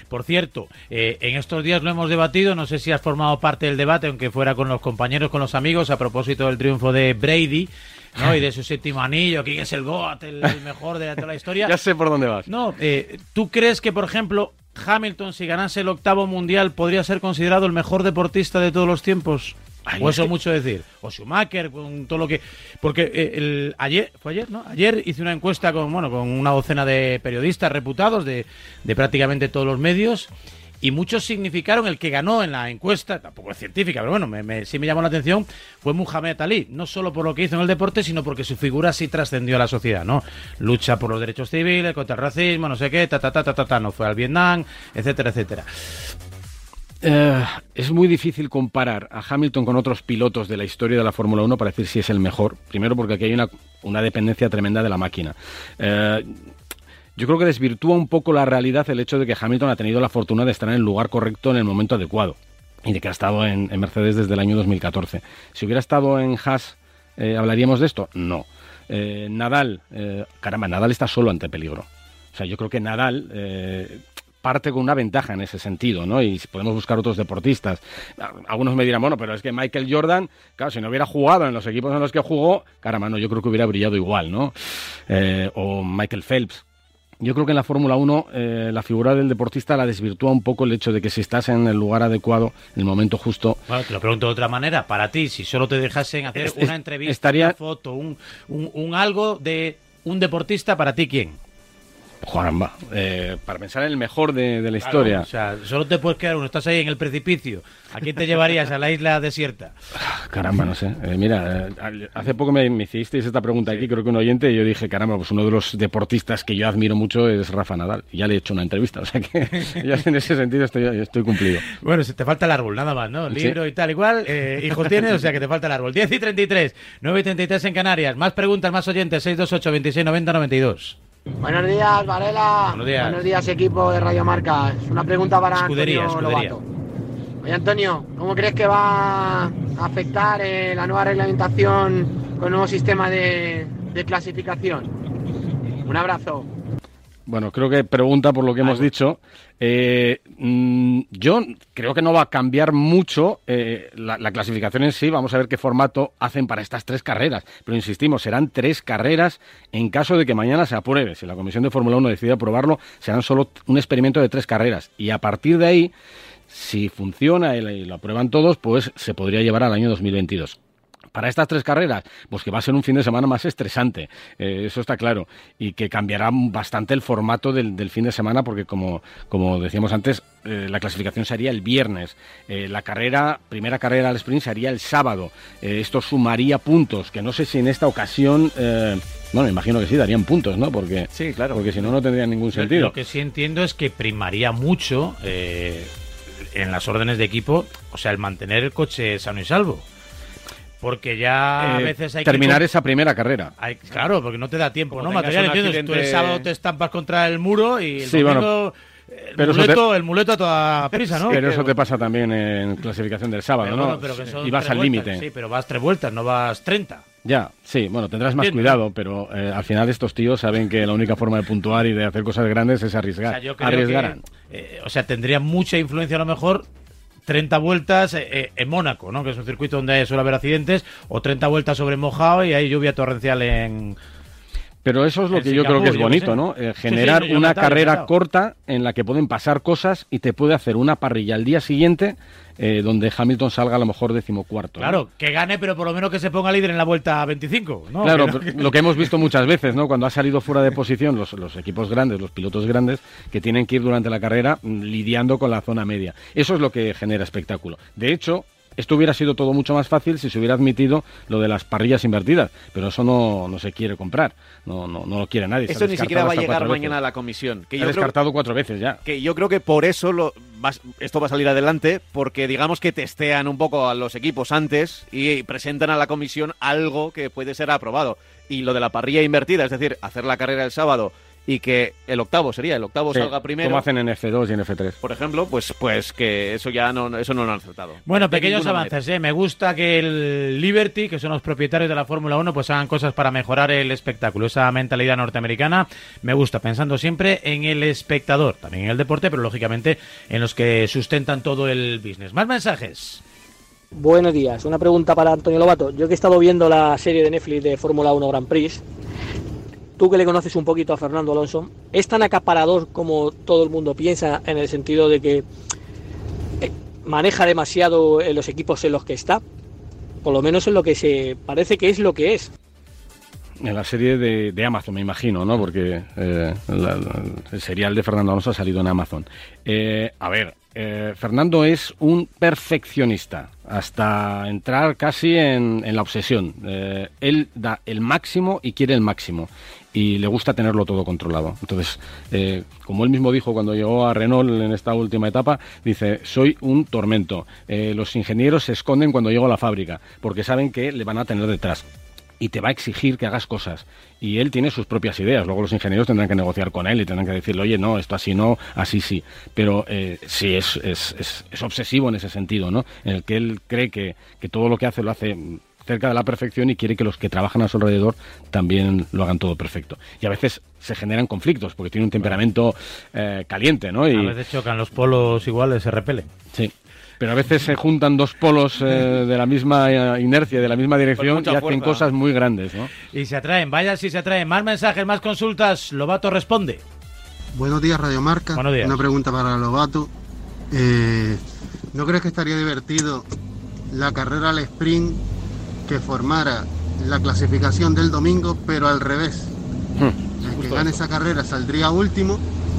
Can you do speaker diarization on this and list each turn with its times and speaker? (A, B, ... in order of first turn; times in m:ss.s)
0:00.1-0:11.7 A
0:11.6-0:12.5 B
0:12.5-0:30.3 A
0:19.9-0:20.3 B
0:30.8-0:45.7 A
0:47.0-0:56.4 B
0:57.2-1:26.6 B
1:27.2-1:33.6 B
1:33.7-1:41.4 A
1:36.4-1:37.6 B
1:42.2-1:45.3 B
1:44.8-1:49.8 A
1:49.9-2:01.7 B
2:01.7-2:11.0 A
2:03.3-2:03.6 B
2:11.4-2:16.6 C
2:12.7-2:13.3 A
2:15.5-2:16.6 A
2:17.4-2:24.9 C
2:25.8-2:26.5 C
2:27.3-2:45.9 B
2:46.5-2:50.6 B
2:51.1-3:13.0 B
3:11.1-3:11.7 D
3:12.5-3:15.9 A
3:16.5-3:19.8 A
3:20.8-3:22.6 A
3:21.6-3:23.5 B
3:23.6-3:31.4 A
3:24.9-3:26.5 D
3:28.0-3:28.5 B
3:29.4-3:29.8 B
3:31.1-3:31.8 D
3:31.3-3:35.2 B
3:33.6-3:37.0 A
3:37.2-3:44.2 B
3:38.4-3:38.8 A
3:43.3-3:46.6 A
3:47.3-3:54.0 A
3:54.8-4:05.0 B
3:55.3-3:58.1 A
4:04.8-4:09.1 A
4:08.0-4:27.0 B
4:25.7-4:28.1 D
4:27.8-4:29.0 B
4:29.0-4:43.8 D
4:43.1-4:45.0 B
4:45.0-4:48.9 D
4:48.1-5:03.2 A
5:03.9-5:08.8 E
5:10.0-5:15.4 E
5:16.6-5:19.4 E
5:20.2-5:22.5 E
5:23.6-5:51.8 B
5:52.4-6:14.4 B
6:14.1-6:16.3 A
6:16.5-6:22.9 B
6:21.2-6:22.1 D
6:23.1-6:26.8 A
6:27.5-6:30.1 F
6:28.6-6:29.0 A
6:30.7-6:31.4 F
6:31.9-6:33.2 F
6:33.9-6:35.2 F
6:35.9-6:39.6 F
6:40.0-6:41.0 B
6:40.4-6:42.4 F